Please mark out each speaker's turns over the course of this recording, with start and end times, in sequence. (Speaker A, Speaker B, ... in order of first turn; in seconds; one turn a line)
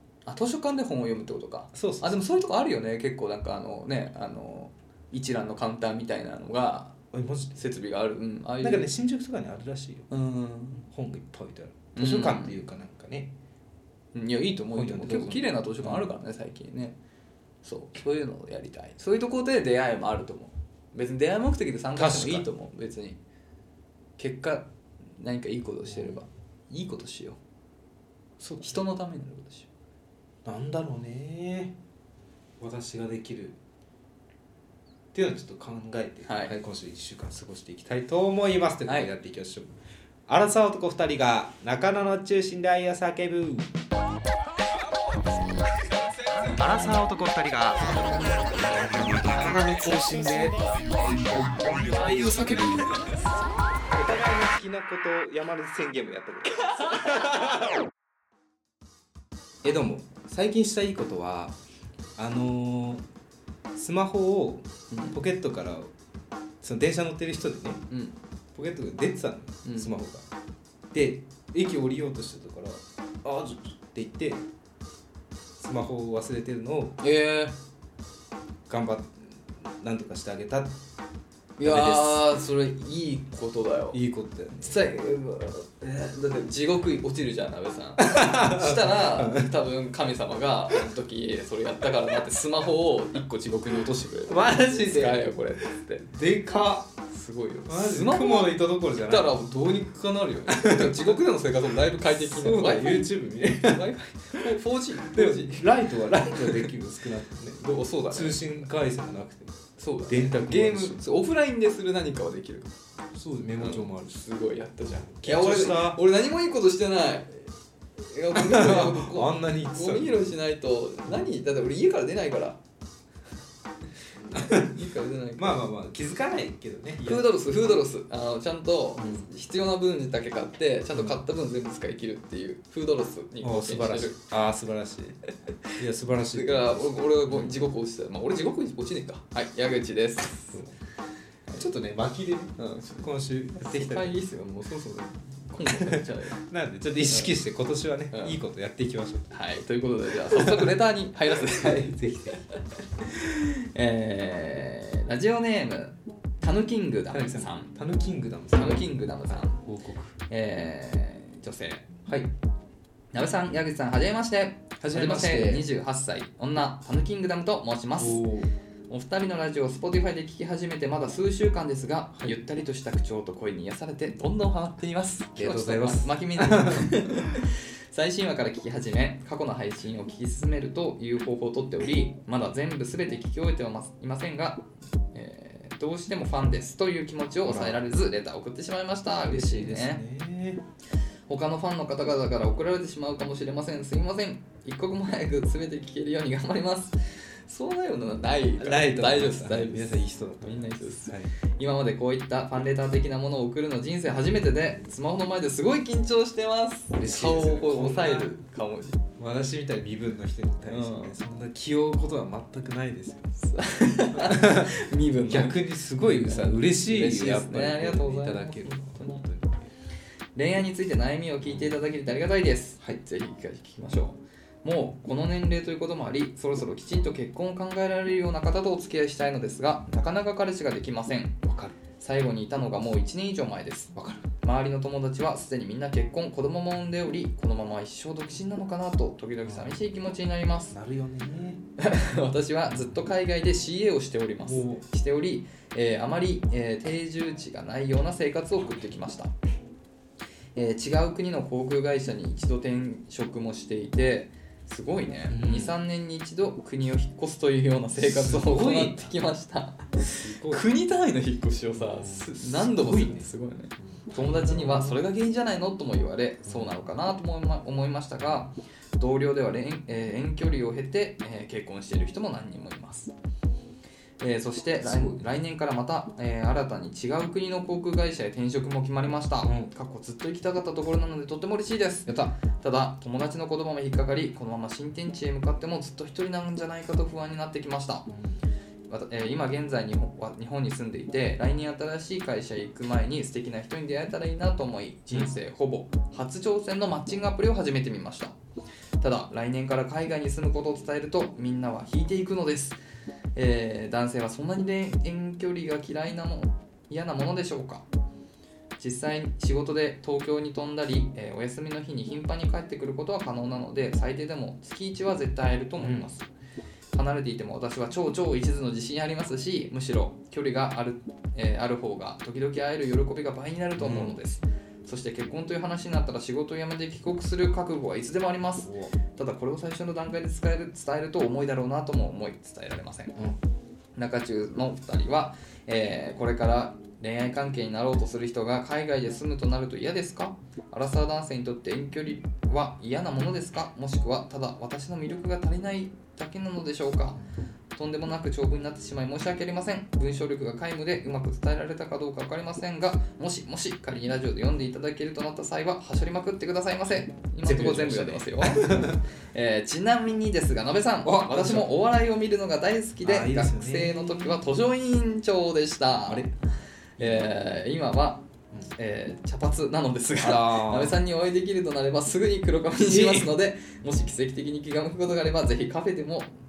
Speaker A: 0.2-7.0
Speaker B: 1.7-2.2
Speaker B: 7.1-7.6
Speaker A: 7.5-8.9
Speaker B: 8.6-10.1
Speaker A: 10.1-10.8
Speaker B: 10.9-13.3
Speaker A: 12.0-12.6
Speaker A: 14.1-17.0
Speaker B: 14.7-16.1
Speaker A: 17.6-23.2
Speaker B: 21.9-22.5
Speaker A: 24.2-27.4
Speaker B: 25.9-26.2
Speaker B: 28.4-28.8
Speaker A: 28.6-29.7
Speaker B: 30.4-31.8
Speaker B: 32.6-33.6
Speaker B: 35.1-39.7
Speaker A: 36.3-36.6
Speaker B: 40.3-43.7
Speaker A: 45.8-46.6
Speaker B: 46.5-50.7
Speaker B: 51.6-52.9
Speaker A: 51.8-53.1
Speaker B: 53.9-57.6
Speaker B: 59.6-61.6
Speaker B: 62.2-63.0
Speaker B: 63.8-65.9
Speaker A: 64.9-65.2
Speaker B: 66.6-67.8
Speaker A: 67.9-68.2
Speaker B: 68.5-70.3
Speaker A: 69.7-69.9
Speaker B: 70.9-74.4
Speaker B: 75.6-77.0
Speaker A: 77.0-77.6
Speaker B: 78.7-80.8
Speaker A: 81.6-84.0
Speaker B: 81.6-82.2
Speaker B: 83.9-84.8
Speaker A: 84.6-96.1
Speaker B: 88.0-89.5
Speaker B: 94.3-96.9
Speaker A: 97.1-105.7
Speaker B: 97.7-99.3
Speaker B: 100.5-101.2
Speaker B: 102.0-103.8
Speaker B: 105.1-111.0
Speaker A: 106.4-106.7
Speaker A: 107.6-108.7
Speaker A: 109.8-112.7
Speaker B: 113.1-114.2
Speaker A: 113.6-122.6
Speaker B: 114.8-116.0
Speaker B: 118.3-120.3
Speaker B: 124.2-124.8
Speaker A: 124.3-125.6
Speaker B: 125.4-127.3
Speaker A: 127.0-134.2
Speaker B: 129.0-129.3
Speaker B: 130.9-131.2
Speaker B: 133.4-135.2
Speaker B: 135.8-137.6
Speaker A: 136.3-140.6
Speaker B: 140.5-140.8
Speaker B: 141.5-144.2
Speaker A: 142.6-146.4
Speaker B: 145.7-149.3
Speaker A: 147.1-147.3
Speaker A: 148.1-148.4
Speaker A: 149.3-157.7
Speaker B: 150.2-150.8
Speaker B: 151.5-152.4
Speaker B: 157.1-160.2
Speaker A: 158.5-159.6
Speaker A: 160.3-161.9
Speaker B: 162.1-162.3
Speaker A: 163.1-168.2
Speaker B: 164.8-165.7
Speaker B: 168.0-168.5
Speaker A: 168.9-190.0
Speaker B: 175.4-177.4
Speaker B: 187.4-187.8
Speaker B: 189.2-190.6
Speaker A: 191.3-209.0
Speaker B: 198.6-201.3
Speaker B: 206.9-208.3
Speaker B: 209.2-213.3
Speaker A: 210.7-211.2
Speaker A: 213.4-219.2
Speaker B: 214.1-219.6
Speaker A: 220.3-231.4
Speaker B: 221.4-221.8
Speaker B: 231.4-231.8
Speaker A: 232.0-240.8
Speaker B: 233.9-234.3
Speaker B: 239.4-239.8
Speaker B: 240.7-241.6
Speaker A: 241.8-249.3
Speaker B: 244.4-244.8
Speaker A: 250.6-273.1
Speaker B: 255.3-255.8
Speaker B: 258.0-259.1
Speaker B: 260.0-260.6
Speaker B: 261.8-265.0
Speaker B: 266.5-266.8
Speaker A: 274.2-288.1
Speaker B: 274.8-275.2
Speaker B: 279.4-279.7
Speaker B: 282.1-282.4
Speaker B: 288.1-288.4
Speaker A: 288.9-298.4
Speaker A: 299.0-302.8
Speaker A: 303.4-307.9
Speaker A: 308.8-316.3
Speaker B: 315.8-316.1
Speaker A: 316.9-333.2
Speaker B: 323.8-324.2
Speaker B: 328.6-328.9
Speaker A: 334.0-347.2
Speaker A: 347.8-366.3
Speaker B: 357.4-359.0
Speaker B: 361.0-361.7
Speaker B: 363.0-364.5
Speaker B: 366.1-366.3
Speaker B: 367.0-367.5
Speaker A: 367.0-376.3
Speaker B: 370.2-371.0
Speaker B: 372.7-373.3